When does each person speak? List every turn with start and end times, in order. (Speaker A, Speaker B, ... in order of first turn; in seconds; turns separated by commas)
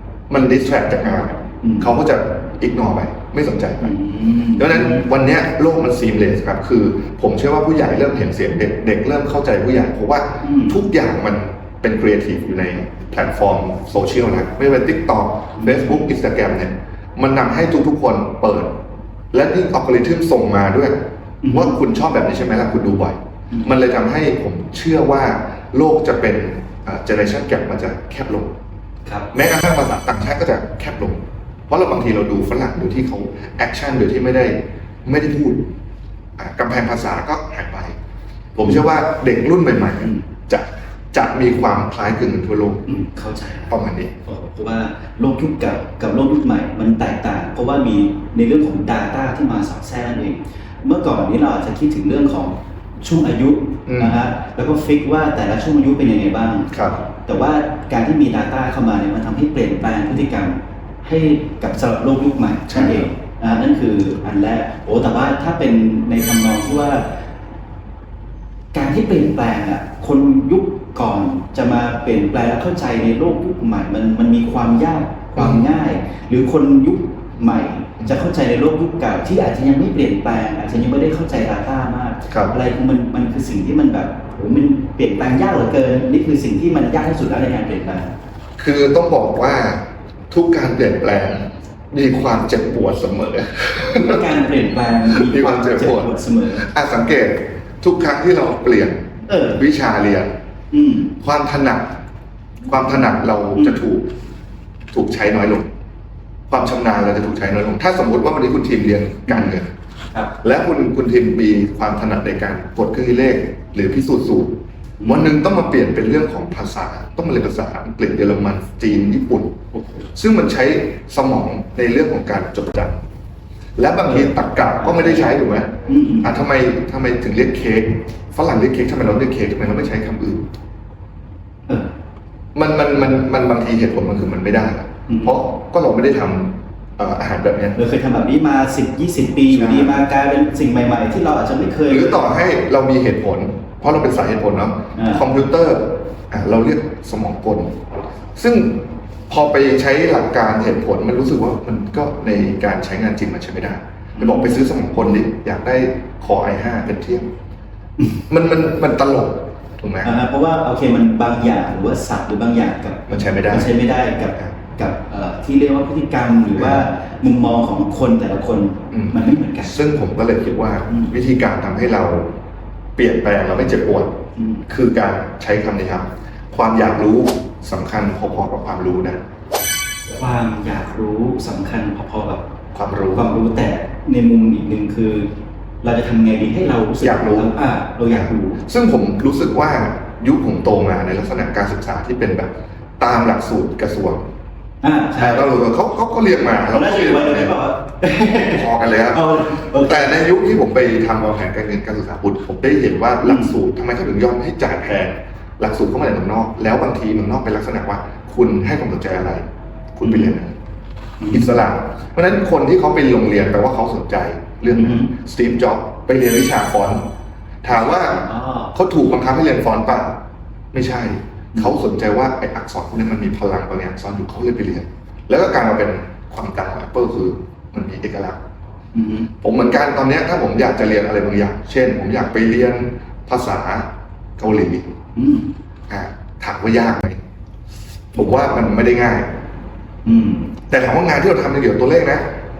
Speaker A: 0.3-3.9, Speaker B: 1.6-1.9, Speaker B: 3.8-5.0, Speaker A: 4.6-18.8, Speaker B: 10.4-10.8, Speaker B: 15.6-16.0, Speaker A: 19.3-20.9, Speaker B: 21.4-21.8, Speaker A: 21.5-28.5, Speaker A: 29.3-35.7, Speaker A: 36.4-38.0, Speaker A: 38.5-42.8, Speaker B: 42.9-43.7, Speaker A: 43.7-44.1, Speaker B: 44.2-56.7, Speaker A: 53.9-54.1, Speaker A: 56.7-57.0, Speaker B: 57.2-67.1, Speaker A: 62.7-63.0, Speaker B: 68.7-88.1, Speaker A: 75.4-75.7, Speaker A: 88.6-94.2, Speaker B: 93.9-96.7, Speaker A: 95.1-100.3, Speaker B: 99.3-99.6, Speaker B: 100.7-101.1, Speaker A: 101.2-101.9, Speaker A: 102.7-104.1, Speaker B: 103.5-103.8, Speaker A: 104.9-105.7, Speaker A: 106.5-109.7, Speaker B: 109.3-109.5, Speaker A: 110.3-119.6, Speaker B: 115.0-115.4, Speaker B: 119.7-120.1, Speaker A: 120.1-123.0, Speaker A: 123.8-130.5, Speaker B: 124.1-125.3, Speaker B: 125.8-126.3, Speaker A: 132.5-137.8, Speaker B: 135.1-135.3, Speaker B: 137.8-142.3, Speaker A: 139.5-140.0, Speaker A: 141.9-147.8, Speaker B: 144.9-145.2, Speaker A: 148.3-157.3, Speaker B: 154.2-154.6, Speaker A: 158.3-160.1, Speaker B: 160.0-169.8, Speaker A: 163.1-163.7, Speaker A: 166.6-166.8, Speaker A: 168.9-172.3, Speaker A: 173.0-179.2, Speaker B: 174.3-174.6, Speaker B: 180.1-182.4, Speaker A: 182.7-183.3, Speaker B: 183.1-185.3, Speaker B: 185.8-188.6, Speaker A: 187.0-187.5, Speaker A: 188.1-194.2, Speaker B: 194.8-195.5, Speaker A: 195.2-197.6, Speaker B: 196.7-200.1, Speaker A: 198.5-209.4, Speaker B: 203.2-203.5, Speaker A: 209.9-210.5, Speaker B: 210.0-210.3, Speaker B: 211.2-211.6, Speaker A: 211.3-217.0, Speaker B: 214.7-215.1, Speaker A: 217.6-220.2, Speaker B: 218.0-218.7, Speaker A: 220.7-228.4, Speaker B: 228.9-229.3, Speaker A: 229.4-233.9, Speaker A: 234.4-234.9, Speaker B: 235.2-235.5, Speaker A: 235.9-237.2, Speaker A: 238.1-239.3, Speaker B: 240.0-240.5, Speaker A: 240.7-242.3